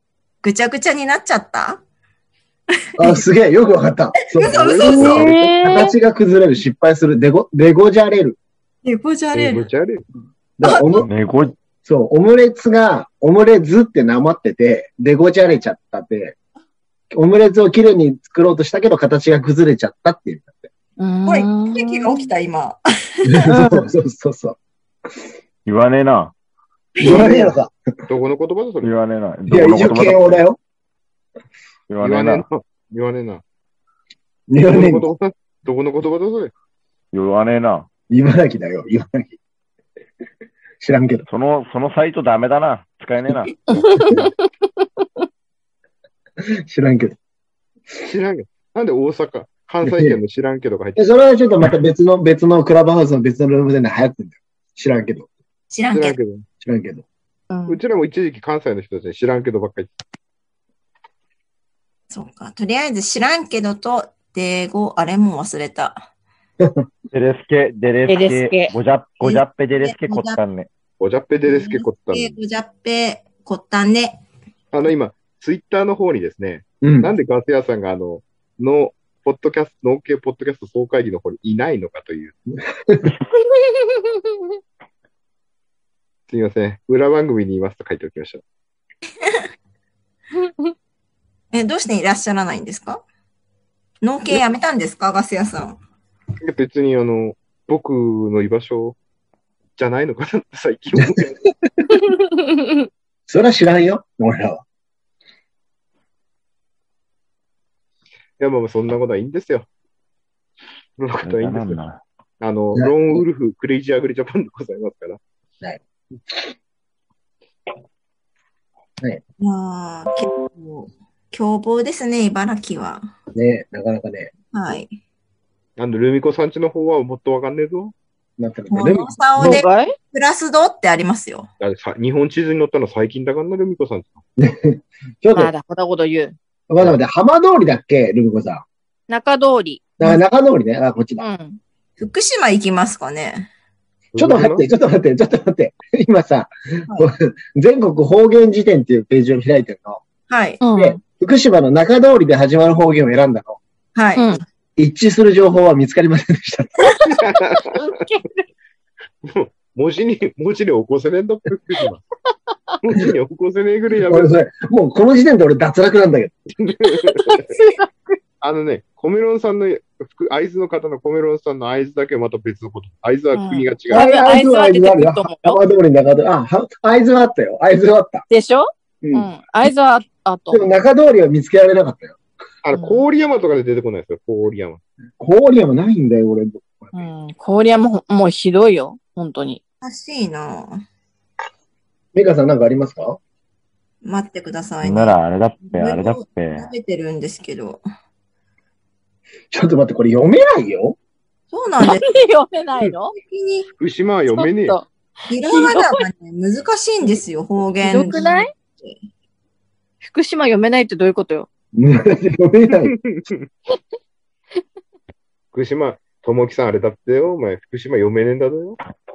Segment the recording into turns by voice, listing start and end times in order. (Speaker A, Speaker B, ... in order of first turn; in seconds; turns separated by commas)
Speaker A: 0.4-1.8, Speaker B: 3.0-8.4, Speaker A: 4.3-5.2, Speaker C: 4.5-5.2, Speaker D: 4.9-5.9, Speaker A: 8.8-9.7, Speaker C: 9.3-10.0, Speaker B: 10.6-11.1, Speaker A: 10.6-11.1, Speaker E: 11.0-11.5, Speaker B: 11.8-16.4, Speaker B: 17.1-20.6, Speaker D: 21.0-22.3, Speaker A: 21.3-23.4, Speaker B: 23.2-24.6, Speaker D: 23.5-23.8, Speaker E: 25.6-26.3, Speaker A: 26.9-27.4, Speaker B: 27.0-27.7, Speaker C: 28.1-28.9, Speaker E: 28.8-30.4, Speaker B: 29.5-30.6, Speaker E: 31.9-32.4, Speaker C: 32.0-33.4, Speaker B: 34.5-35.0, Speaker C: 34.6-36.5, Speaker E: 37.1-37.9, Speaker B: 38.1-39.4, Speaker B: 40.8-41.2, Speaker E: 41.3-43.5, Speaker D: 43.7-44.2, Speaker B: 46.4-47.2, Speaker C: 48.0-51.0, Speaker B: 49.8-50.2, Speaker B: 51.0-55.3, Speaker A: 55.7-56.2, Speaker C: 55.9-56.4, Speaker B: 56.6-57.0, Speaker D: 57.5-57.8, Speaker C: 57.7-59.9, Speaker A: 62.1-66.0, Speaker E: 67.1-70.7, Speaker D: 68.0-68.7, Speaker A: 69.2-70.4, Speaker C: 71.0-72.3, Speaker A: 71.5-74.2, Speaker C: 74.7-82.4, Speaker B: 76.8-77.1, Speaker D: 83.5-84.3, Speaker C: 86.3-88.4, Speaker D: 90.4-90.7, Speaker A: 91.5-93.0, Speaker A: 94.0-95.8, Speaker C: 96.4-99.0, Speaker C: 99.8-101.4, Speaker D: 101.9-102.8, Speaker B: 103.3-104.6, Speaker C: 108.4-109.7, Speaker C: 111.0-111.8, Speaker E: 111.2-112.0, Speaker C: 112.4-115.2, Speaker B: 112.7-113.2, Speaker A: 119.4-123.1, Speaker B: 123.3-124.3, Speaker A: 124.5-124.9, Speaker C: 125.8-127.9, Speaker B: 128.4-129.6, Speaker A: 128.7-131.5, Speaker D: 129.4-129.9, Speaker C: 131.6-134.2, Speaker B: 134.4-135.5, Speaker D: 135.3-136.3, Speaker B: 136.7-138.6, Speaker D: 139.1-139.8, Speaker B: 140.0-141.2, Speaker D: 141.2-141.6, Speaker A: 142.0-143.5, Speaker C: 144.1-144.6, Speaker B: 144.2-150.0, Speaker A: 150.3-150.6, Speaker D: 150.6-151.0, Speaker B: 150.7-153.6, Speaker A: 153.9-154.4, Speaker B: 154.8-157.1, Speaker C: 157.2-157.7, Speaker D: 157.6-158.4, Speaker C: 159.2-162.0, Speaker C: 162.8-164.3, Speaker B: 164.1-166.3, Speaker C: 166.6-167.6, Speaker D: 166.9-168.2, Speaker C: 168.4-174.1, Speaker D: 173.3-175.6, Speaker B: 173.9-178.2, Speaker D: 178.3-180.7, Speaker B: 179.0-179.3, Speaker B: 180.5-182.2, Speaker C: 182.6-184.8, Speaker D: 182.7-183.0, Speaker B: 185.2-187.0, Speaker D: 186.9-189.6, Speaker A: 189.8-190.8, Speaker B: 192.1-193.2, Speaker A: 194.0-197.8, Speaker E: 194.8-196.7, Speaker B: 199.5-201.0, Speaker A: 201.5-202.2, Speaker D: 201.8-203.1, Speaker A: 203.1-203.7, Speaker C: 203.8-204.8, Speaker D: 204.3-204.9, Speaker A: 205.3-208.9, Speaker D: 205.5-206.0, Speaker D: 207.8-208.5, Speaker D: 210.0-211.5, Speaker B: 211.7-212.9, Speaker C: 212.8-213.4, Speaker C: 215.5-218.8